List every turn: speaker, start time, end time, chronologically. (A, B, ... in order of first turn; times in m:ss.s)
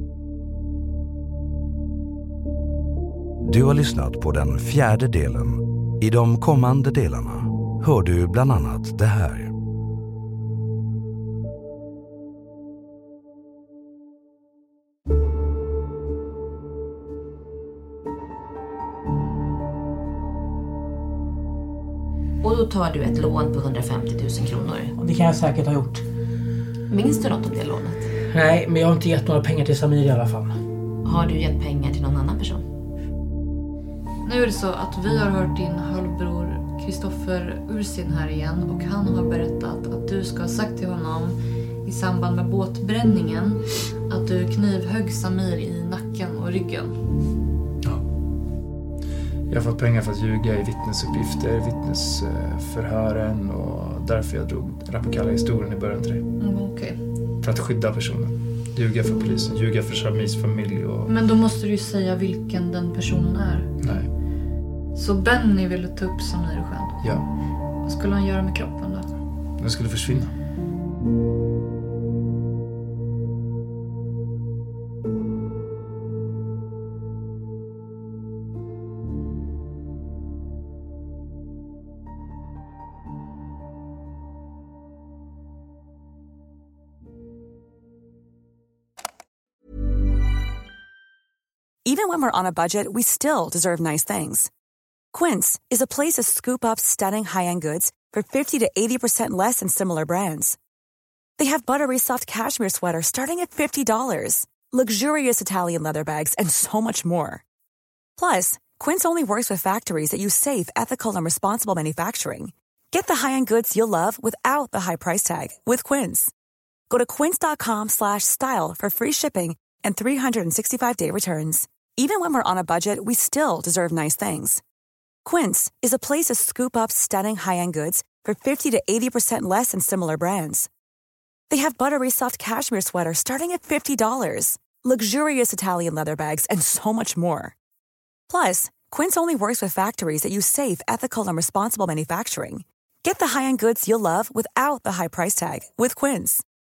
0:03.4-0:09.5 A
0:22.4-0:24.9 B
0:25.0-0:26.0 C
0:26.9-0:28.1 B
0:28.3-0:30.6 C
0:31.0-0:32.7 B
0:34.2-0:47.1 D
0:49.5-0:56.2 E
0:56.4-0:57.0 D
0:57.4-1:01.1 E
1:01.0-1:03.7 D
1:03.8-1:04.1 E
1:04.9-1:07.0 D
1:07.0-1:07.2 E
1:07.8-1:09.1 D
1:09.6-1:10.3 E
1:31.8-1:34.5 F
1:35.1-1:40.6 F
1:41.4-1:47.4 F
1:48.2-1:56.3 F
1:56.9-2:04.6 F
2:05.2-2:10.7 F
2:11.5-2:17.5 F
2:18.3-2:26.4 F